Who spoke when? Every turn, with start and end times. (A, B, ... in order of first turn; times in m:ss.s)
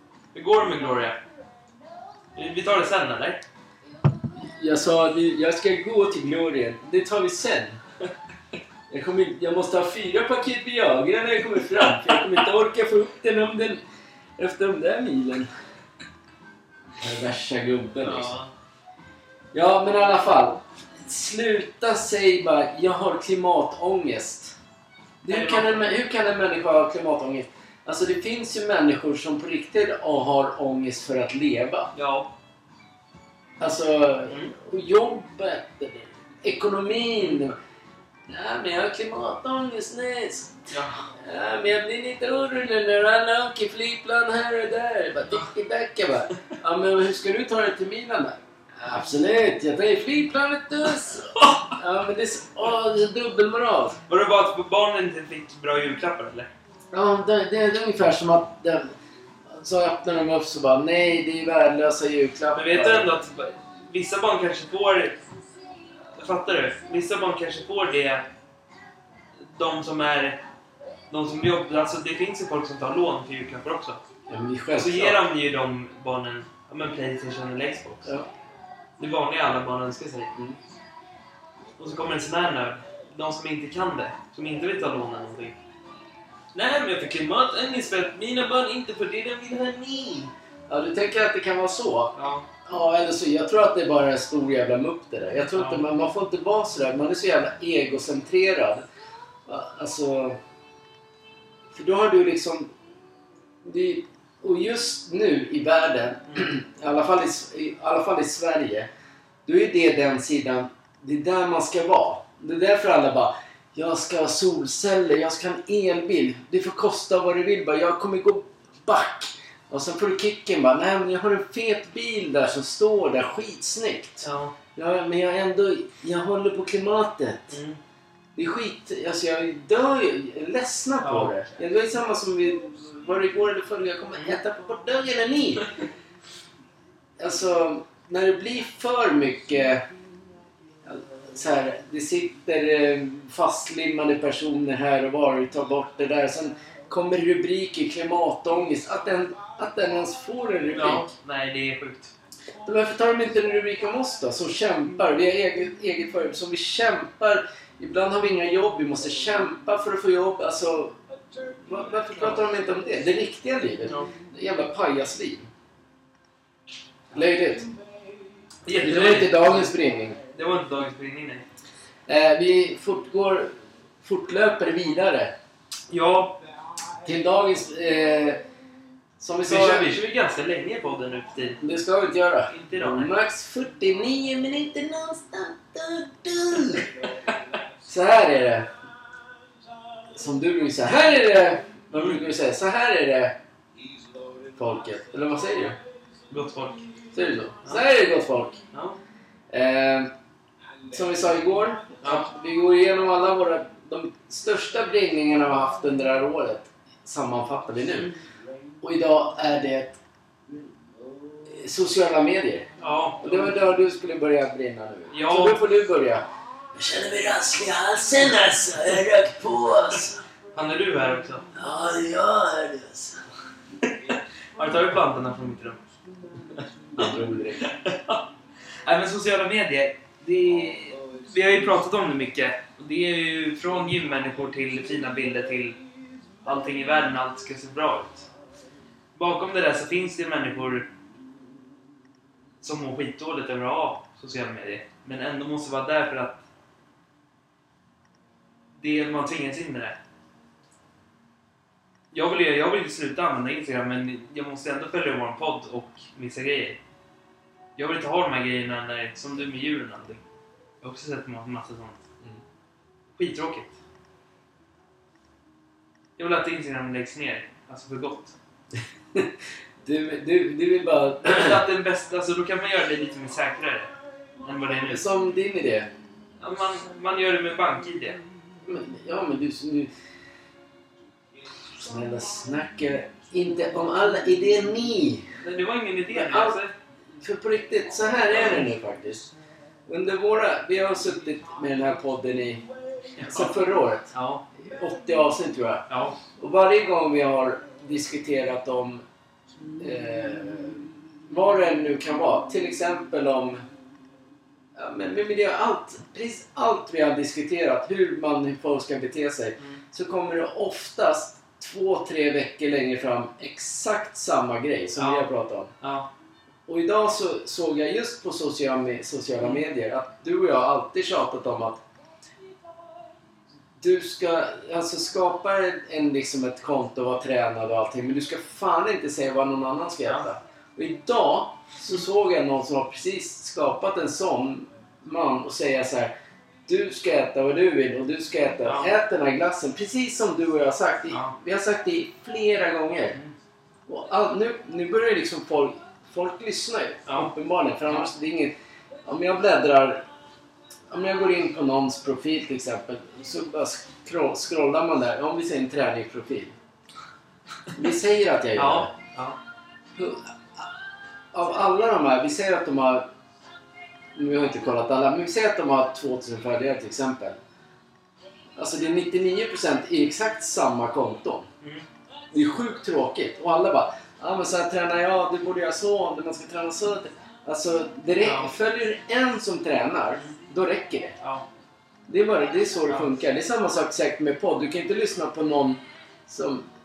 0:00.3-0:01.2 A
0:02.4-0:03.4 A
0:04.4-0:07.8 B
0:08.9-0:13.8 B
0:14.4-0:15.5 B
0:17.0-0:18.4 B
0:18.0-0:18.5 A
0:19.5-0:24.6 B
0:25.2-0:31.9 B
0:25.3-0:25.9 A
0:32.0-0:32.3 A
0:33.6-0:37.6 B
0:37.2-0:37.5 A
0:38.3-0:54.0 B
0:40.7-0:41.0 A
0:54.1-0:56.5 A
0:56.9-0:58.9 B
0:59.5-1:03.1 B
1:02.5-1:05.2 A
1:06.1-1:08.3 A
1:09.5-1:10.4 A
1:11.1-1:14.0 A
1:14.3-1:15.2 B
1:14.8-1:18.1 A
1:19.0-1:20.3 A
1:21.8-1:25.6 A
1:26.5-1:30.3 A
1:30.7-1:38.8 B
1:32.2-1:32.5 A
1:35.5-1:35.9 A
1:39.5-1:40.4 B
1:41.7-1:42.7 B
1:43.6-1:48.9 B
1:49.4-2:04.2 B
2:04.2-2:04.5 A
2:04.8-2:07.6 B
2:07.5-2:07.8 A
2:08.4-2:15.7 B
2:11.0-2:11.3 A
2:17.2-2:19.8 B
2:20.8-2:31.1 B
2:30.7-2:32.1 A
2:32.6-2:41.0 B
2:41.6-2:45.5 B
2:42.2-2:42.4 A
2:47.1-2:47.7 B
2:48.6-2:49.7 A
2:48.8-2:50.2 B
2:50.3-2:51.4 A
2:52.1-2:55.3 B
2:55.9-2:56.4 A
2:57.0-2:58.4 B
2:59.2-3:00.0 B
2:59.4-3:01.6 A
3:01.6-3:06.9 B
3:02.5-3:03.1 A
3:07.9-3:08.7 B
3:10.1-3:13.4 B
3:12.0-3:12.2 A
3:14.5-3:15.8 B
3:16.3-3:16.9 A
3:17.1-3:18.6 B
3:18.7-3:19.0 A
3:19.5-3:20.1 B
3:20.9-3:28.1 B
3:22.0-3:22.3 A
3:27.9-3:28.2 A
3:28.8-3:30.0 B
3:31.4-3:32.7 B
3:32.8-3:33.5 A
3:33.2-3:40.2 B
3:35.1-3:35.6 A
3:40.5-3:41.5 A
3:41.6-3:43.2 B
3:44.1-3:45.8 A
3:47.0-3:47.7 B
3:47.0-3:48.2 A
3:48.8-3:55.8 A
3:56.4-3:58.3 A
3:59.2-4:00.9 A
4:02.6-4:06.4 A
4:08.8-4:10.0 A
4:12.1-4:16.8 A
4:17.8-4:20.2 A
4:20.8-4:22.0 A
4:23.2-4:23.7 A
4:26.2-4:28.4 A
4:29.8-4:31.6 B
4:31.2-4:35.0 A
4:34.9-4:35.9 B
4:36.4-4:38.2 A
4:38.6-4:39.9 B
4:41.7-4:45.4 B
4:45.4-4:46.7 A
4:46.1-4:46.6 B
4:47.2-4:49.3 B
4:49.9-4:52.6 B
4:53.2-4:53.5 A
4:53.3-4:55.8 B
4:54.1-4:54.4 A
4:55.9-4:56.2 A
4:56.4-4:59.0 B
4:59.8-5:03.6 B
5:04.8-5:15.7 B
5:15.0-5:15.3 A
5:15.8-5:16.1 A
5:16.7-5:21.8 B
5:23.8-5:36.1 B
5:36.7-5:43.2 B
5:38.6-5:38.9 A
5:43.9-5:48.5 B
5:49.0-5:50.0 B
5:50.9-5:56.6 B
5:57.7-5:58.9 B
5:58.6-5:59.4 A
6:00.0-6:00.7 B
6:01.3-6:03.1 B
6:04.2-6:07.4 B
6:08.6-6:11.5 B
6:12.3-6:21.2 B
6:18.2-6:18.5 A
6:22.1-6:26.7 B